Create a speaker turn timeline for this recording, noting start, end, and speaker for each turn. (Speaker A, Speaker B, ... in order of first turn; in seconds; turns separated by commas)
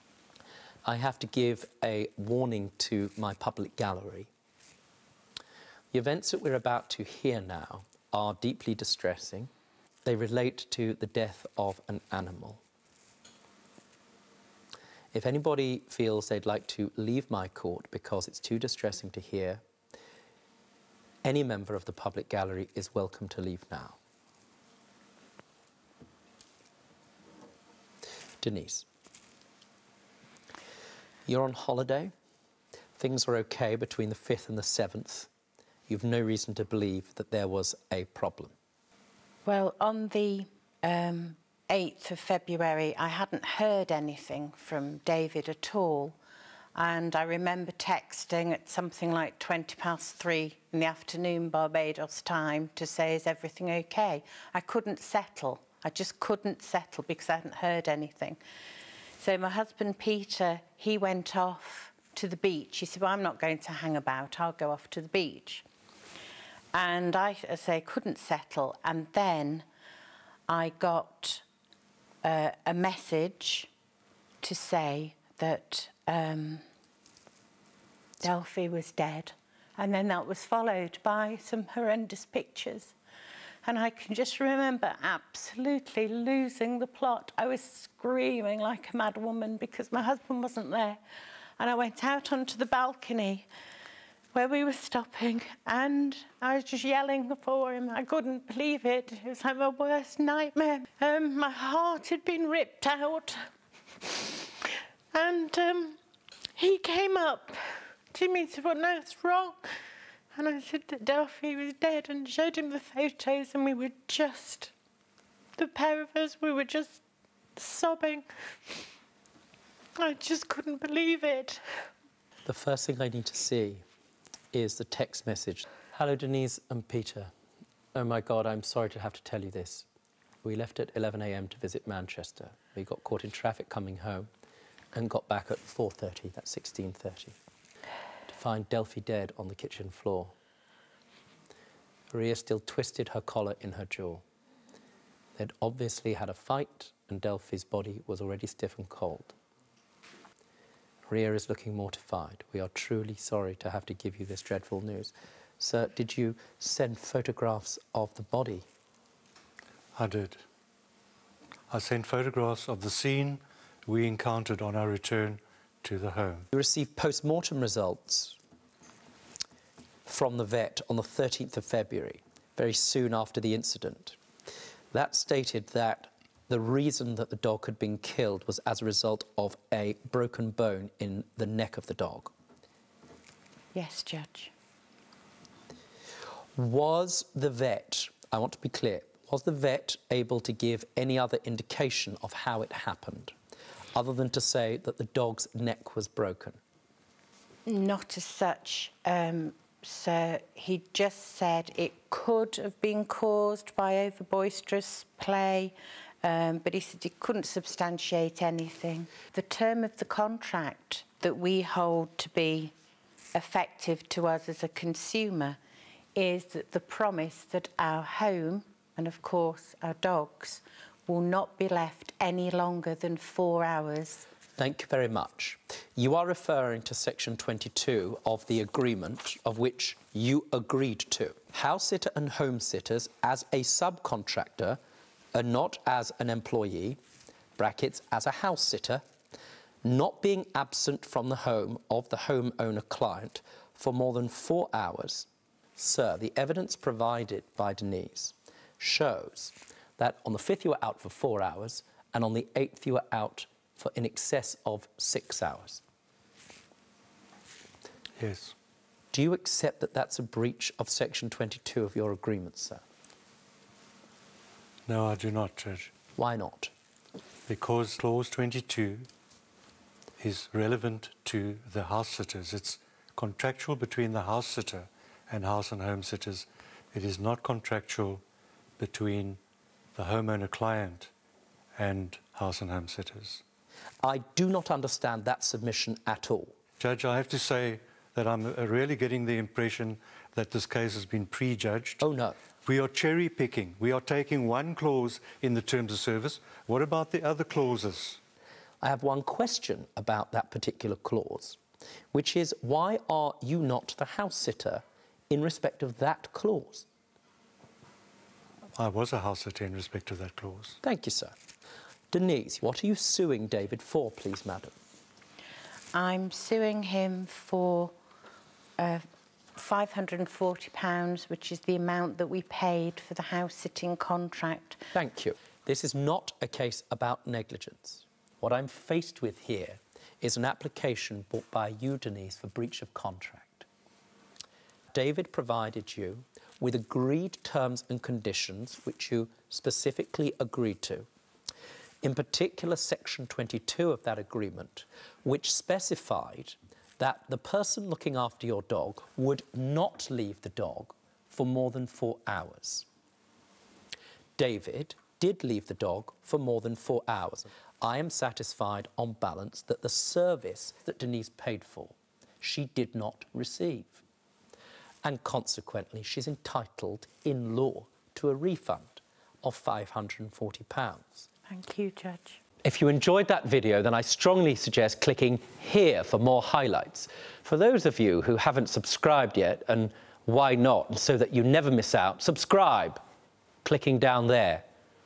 Speaker A: 0.8-4.3, Speaker A: 5.9-9.5, Speaker A: 10.0-12.6, Speaker A: 15.1-19.6, Speaker A: 21.2-24.0, Speaker A: 28.4-28.9, Speaker A: 31.3-32.1, Speaker A: 33.0-35.3, Speaker A: 35.9-38.5, Speaker B: 39.5-46.2, Speaker B: 46.8-58.4, Speaker B: 59.2-65.6, Speaker B: 66.7-69.7, Speaker B: 70.5-71.4, Speaker B: 72.2-73.7, Speaker B: 74.4-76.6, Speaker B: 78.2-82.9, Speaker B: 83.6-91.0, Speaker B: 91.6-93.5, Speaker B: 94.3-103.4, Speaker B: 104.0-106.0, Speaker B: 106.6-109.6, Speaker B: 110.3-114.7, Speaker B: 115.6-117.0, Speaker B: 117.5-118.8, Speaker B: 120.0-121.6, Speaker A: 122.4-123.8, Speaker A: 124.5-127.3, Speaker A: 127.9-129.8, Speaker A: 130.4-134.3, Speaker A: 134.9-137.3, Speaker A: 138.3-140.3, Speaker A: 142.1-144.2, Speaker A: 145.4-149.3, Speaker A: 151.1-158.7, Speaker C: 159.9-160.4, Speaker C: 161.7-166.5, Speaker A: 166.5-168.4, Speaker A: 170.1-174.2, Speaker A: 174.9-182.3, Speaker B: 183.7-184.5, Speaker A: 186.6-193.3, Speaker A: 193.9-196.6, Speaker B: 197.7-212.7, Speaker B: 213.3-215.6, Speaker B: 216.2-224.2, Speaker A: 224.6-234.8, Speaker A: 235.3-237.0, Speaker A: 237.6-239.0, Speaker A: 239.8-255.8, Speaker C: 258.2-258.5, Speaker A: 259.1-262.8, Speaker C: 264.9-265.9, Speaker A: 266.1-266.7, Speaker C: 267.5-269.1, Speaker C: 270.2-278.2, Speaker C: 278.8-279.4, Speaker C: 279.9-281.1, Speaker C: 281.8-283.4, Speaker A: 284.0-286.5, Speaker C: 286.8-292.0, Speaker A: 292.0-292.4, Speaker C: 292.6-298.2, Speaker A: 298.8-301.6, Speaker A: 302.1-306.9, Speaker C: 308.8-310.8, Speaker A: 310.8-311.3, Speaker A: 312.1-314.7, Speaker B: 315.9-317.9, Speaker B: 318.8-319.0, Speaker B: 319.6-324.8, Speaker A: 324.9-333.6, Speaker A: 334.9-341.1, Speaker A: 342.0-352.9, Speaker A: 354.4-364.0, Speaker A: 365.0-371.3, Speaker B: 371.5-372.4, Speaker A: 372.6-383.0, Speaker A: 383.6-384.6